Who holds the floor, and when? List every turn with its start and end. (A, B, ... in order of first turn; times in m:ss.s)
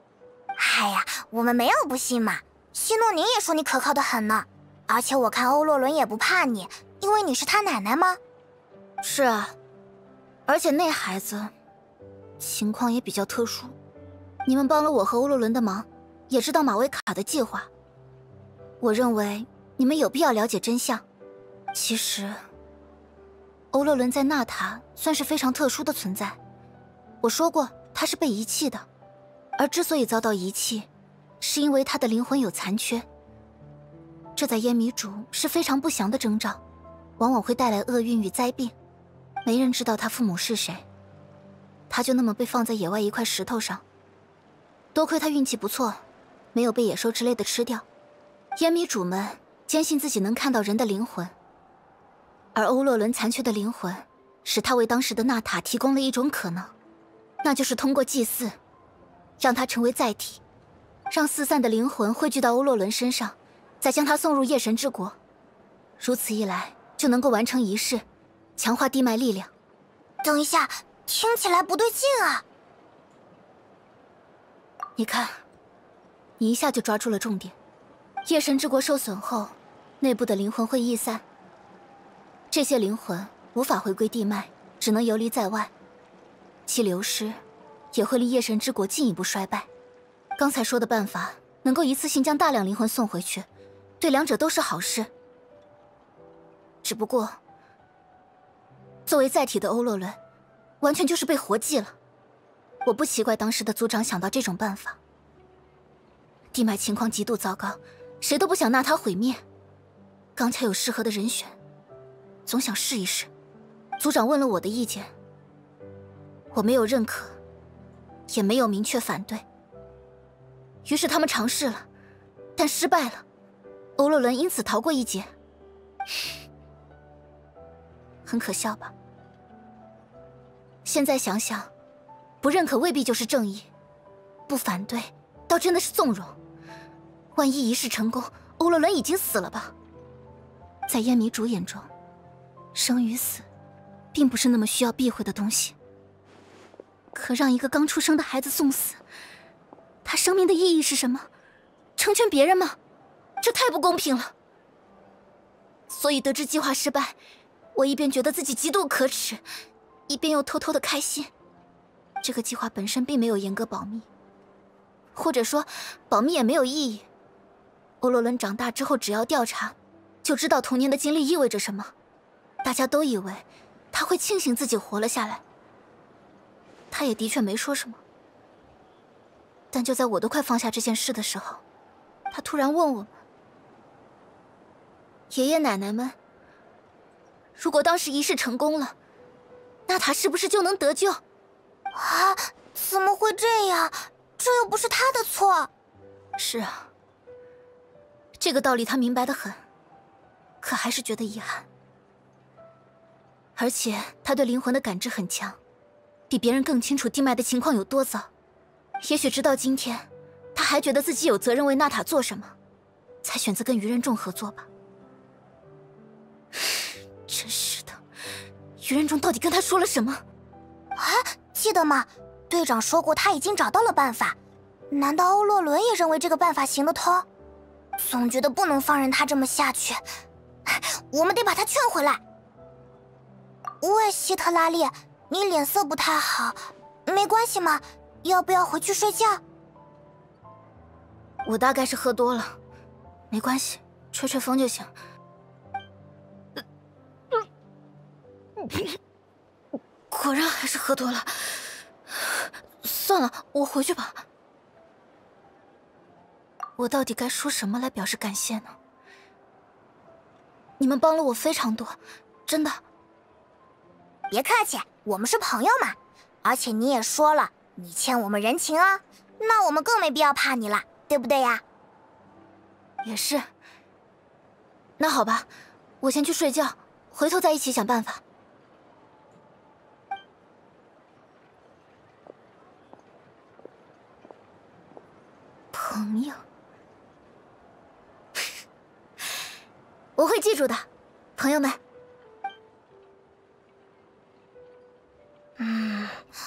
0:00.6-0:08.2 A
0:09.0-0:09.6 B
0:10.5-0:11.5 B
0:12.4-0:13.8 B
0:14.5-0:17.7 B
0:18.8-0:21.0 B
0:21.7-0:22.4 B
0:23.7-0:26.4 B
0:27.2-0:28.8 B
0:29.6-0:30.9 B
0:31.4-0:33.0 B
0:34.4-0:36.6 B
0:37.2-0:38.7 B
0:39.4-0:40.8 B
0:41.9-0:43.8 B
0:44.9-0:46.0 B
0:46.5-0:47.8 B
0:48.6-0:51.3 B
0:52.6-0:56.7 B
0:57.4-0:58.6 B
0:59.4-1:00.4 B
1:01.1-1:05.2 B
1:06.0-1:08.0 B
1:08.6-1:09.5 B
1:10.2-1:12.4 A
1:15.0-1:15.4 B
1:16.4-1:17.6 B
1:18.2-1:21.2 B
1:22.5-1:25.7 B
1:26.7-1:27.4 B
1:27.9-1:29.7 B
1:30.4-1:33.5 B
1:34.0-1:35.1 B
1:36.8-1:37.4 B
1:39.1-1:40.2 B
1:40.8-1:42.0 B
1:42.8-1:45.0 B
1:46.5-1:49.4 B
1:50.4-1:51.5 B
1:52.5-1:53.3 B
1:54.0-1:55.1 B
1:56.5-1:57.4 B
1:58.3-1:59.4 B
2:00.9-2:01.9 B
2:02.6-2:03.2 B
2:04.0-2:05.3 B
2:08.3-2:08.9 B
2:10.8-2:11.7 B
2:12.4-2:13.7 B
2:14.5-2:16.4 B
2:17.4-2:19.7 B
2:20.9-2:21.9 B
2:22.8-2:23.4 B
2:24.1-2:25.8 B
2:27.1-2:29.0 B
2:30.0-2:31.3 B
2:32.0-2:32.8 B
2:33.4-2:34.3 B
2:35.9-2:37.2 B
2:37.8-2:39.4 B
2:40.1-2:41.3 B
2:42.2-2:44.1 B
2:45.2-2:47.1 B
2:48.0-2:51.9 B
2:52.6-2:55.4 B
2:56.9-2:58.0 B
2:59.7-3:01.6 B
3:02.3-3:03.1 B
3:05.3-3:06.2 B
3:07.6-3:09.0 B
3:09.9-3:11.2 B
3:11.9-3:15.7 A
3:16.4-3:16.9 B
3:18.4-3:19.6 B
3:20.6-3:21.7 B
3:23.6-3:25.6 B
3:26.3-3:28.3 B
3:29.0-3:32.5 B
3:33.2-3:34.7 B
3:37.3-3:38.0 B
3:38.8-3:40.2 B
3:41.0-3:44.4 A
3:44.9-3:47.3 A
3:48.0-3:50.0 A
3:50.7-3:52.2 A
3:53.8-3:59.4 A
4:01.4-4:02.6 B
4:03.3-4:04.9 B
4:08.6-4:09.0 B
4:10.1-4:14.2 B
4:16.8-4:18.8 B
4:20.8-4:22.8 B
4:24.3-4:31.6 A
4:33.0-4:33.5 B
4:35.0-4:35.5 B
4:36.0-4:38.2 B
4:45.7-4:46.4 B
4:50.2-4:51.8 B
4:55.6-4:56.2 A